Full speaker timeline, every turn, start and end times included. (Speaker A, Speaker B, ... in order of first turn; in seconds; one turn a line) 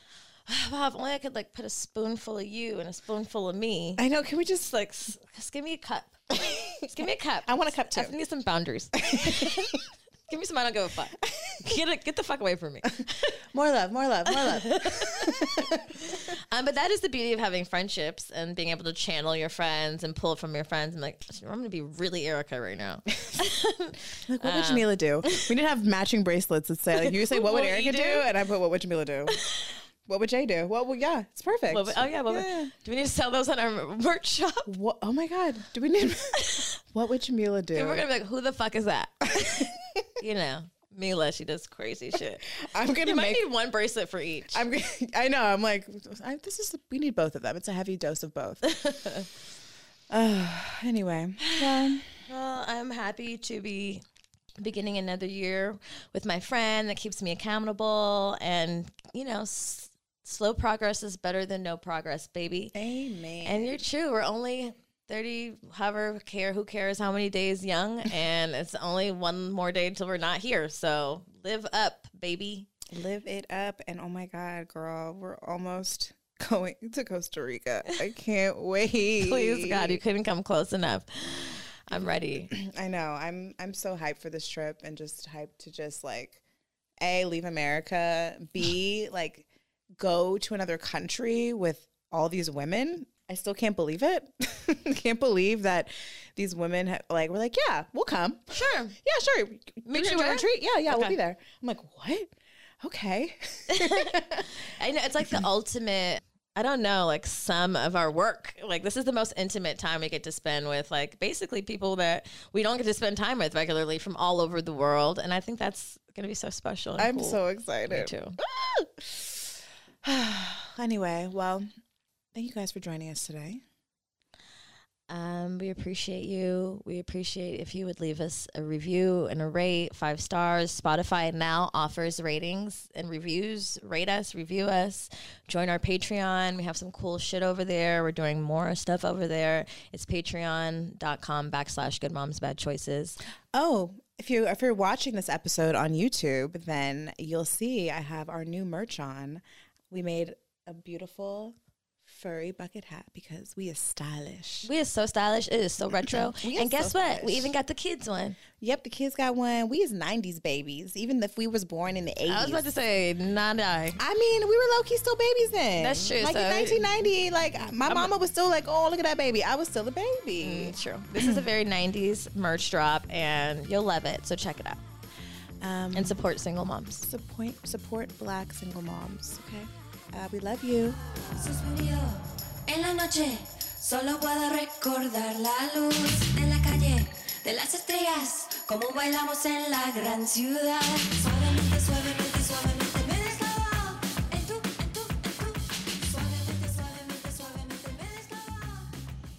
Speaker A: 0.5-4.0
Speaker B: 4.0-4.7
Speaker A: 4.7-9.7
Speaker B: 6.5-6.8
Speaker B: 7.5-8.2
Speaker B: 9.0-9.8
Speaker A: 10.3-13.3
Speaker B: 13.5-16.0
Speaker A: 14.3-25.5
Speaker B: 24.3-29.4
Speaker A: 27.0-28.3
Speaker A: 29.3-29.8
Speaker B: 30.1-32.7
Speaker A: 31.7-34.7
Speaker B: 34.7-38.0
Speaker A: 36.4-36.7
Speaker A: 37.7-42.5
Speaker B: 39.4-40.0
Speaker B: 42.5-43.4
Speaker A: 43.0-44.6
Speaker B: 44.5-48.6
Speaker A: 48.6-49.3
Speaker B: 50.1-52.1
Speaker A: 51.4-54.0
Speaker A: 54.6-62.7
Speaker B: 62.7-63.8
Speaker A: 63.4-72.7
Speaker B: 72.9-80.0
Speaker A: 79.2-82.5
Speaker B: 81.9-86.4
Speaker B: 87.0-89.5
Speaker B: 90.0-104.5
Speaker A: 98.5-99.0
Speaker A: 99.9-101.2
Speaker A: 103.7-118.4
Speaker B: 117.0-121.7
Speaker B: 122.3-123.6
Speaker A: 125.1-143.2
Speaker B: 143.5-154.7
Speaker A: 154.7-158.4
Speaker B: 155.9-157.5
Speaker B: 158.6-162.7
Speaker A: 162.3-164.0
Speaker B: 164.0-171.4
Speaker A: 165.8-167.1
Speaker A: 167.8-168.1
Speaker A: 170.4-174.8
Speaker B: 175.6-176.2
Speaker A: 175.9-177.1
Speaker B: 177.0-181.0
Speaker C: 181.4-199.0